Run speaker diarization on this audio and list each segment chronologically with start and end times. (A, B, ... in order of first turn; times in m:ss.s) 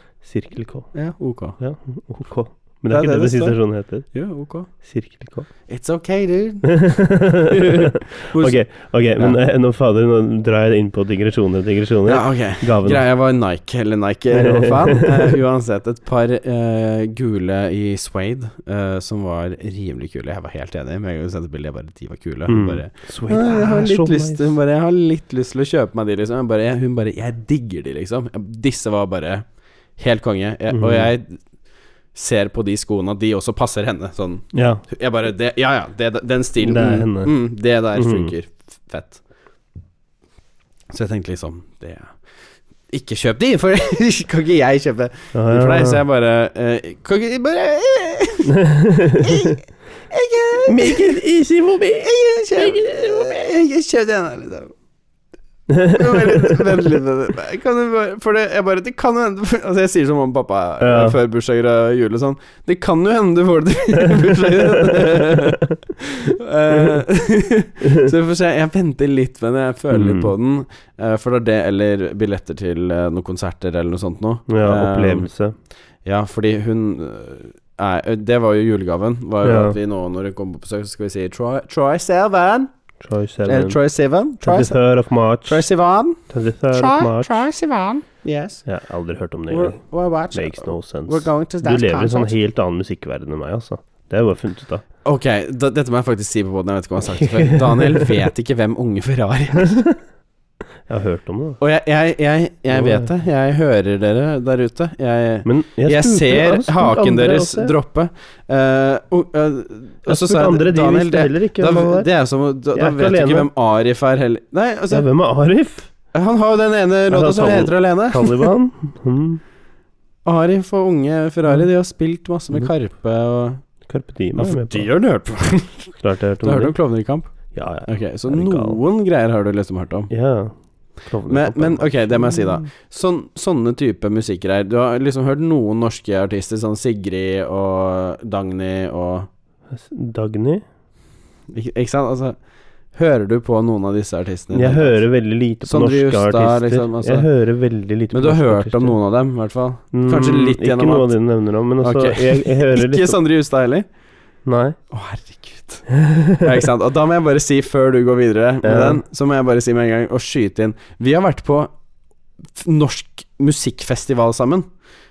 0:00.2-0:00.9 A
0:00.9-0:01.6 B
0:01.6-0:04.1 A
0:02.9-0:03.6 B
0:04.1-0:04.7 B
0:04.8-0:05.5 A
0:05.7-0:06.8 B
0:06.6-0:13.0 A
0:07.5-0:08.6 B
0:12.1-0:29.4 B
0:14.3-0:15.3 A
0:22.5-0:24.5 A
0:30.0-0:31.4 B
0:30.7-0:31.1 A
0:32.1-0:39.2 B
0:34.5-0:34.8 A
0:36.6-0:37.3 A
0:38.0-0:38.3 A
0:40.9-0:42.1 B
0:42.9-0:48.6 B
0:45.3-0:46.0 A
0:48.5-0:49.6 A
0:49.2-0:51.2 B
0:50.7-0:53.3 A
0:52.0-0:54.7 B
0:55.7-0:56.8 A
0:55.9-1:15.3 B
1:00.8-1:01.2 A
1:04.2-1:05.6 A
1:07.8-1:08.1 A
1:09.9-1:10.3 A
1:14.5-1:15.5 A
1:16.0-1:22.7 B
1:19.4-1:19.8 A
1:23.0-1:23.8 A
1:23.4-1:24.8 B
1:24.4-1:25.7 A
1:25.5-1:26.2 B
1:26.3-1:27.5 A
1:26.7-1:28.6 B
1:28.7-1:29.8 A
1:29.5-1:32.3 B
1:30.3-1:34.8 A
1:35.0-1:39.9 B
1:37.1-1:38.1 A
1:39.7-1:39.9 A
1:40.9-1:41.6 A
1:41.6-1:55.1 B
1:42.7-1:43.1 A
1:45.4-1:47.7 A
1:50.1-1:52.1 A
1:52.7-1:53.5 A
1:54.9-1:55.9 A
1:56.1-1:58.4 B
1:57.1-1:59.4 A
2:00.3-2:03.6 B
2:03.9-2:04.9 A
2:04.4-2:07.3 B
2:06.0-2:06.8 A
2:07.5-2:08.8 A
2:07.9-2:10.1 B
2:10.1-2:12.7 A
2:11.3-2:19.3 B
2:19.7-2:20.6 A
2:21.5-2:22.4 B
2:22.9-2:25.0 B
2:24.5-2:29.0 A
2:25.6-2:27.3 B
2:28.1-2:31.1 B
2:29.9-2:33.2 A
2:31.8-2:33.9 B
2:34.4-2:34.8 A
2:34.9-2:35.9 B
2:36.0-2:36.6 A
2:36.4-2:41.7 B
2:38.6-2:39.0 A
2:42.6-2:44.7 B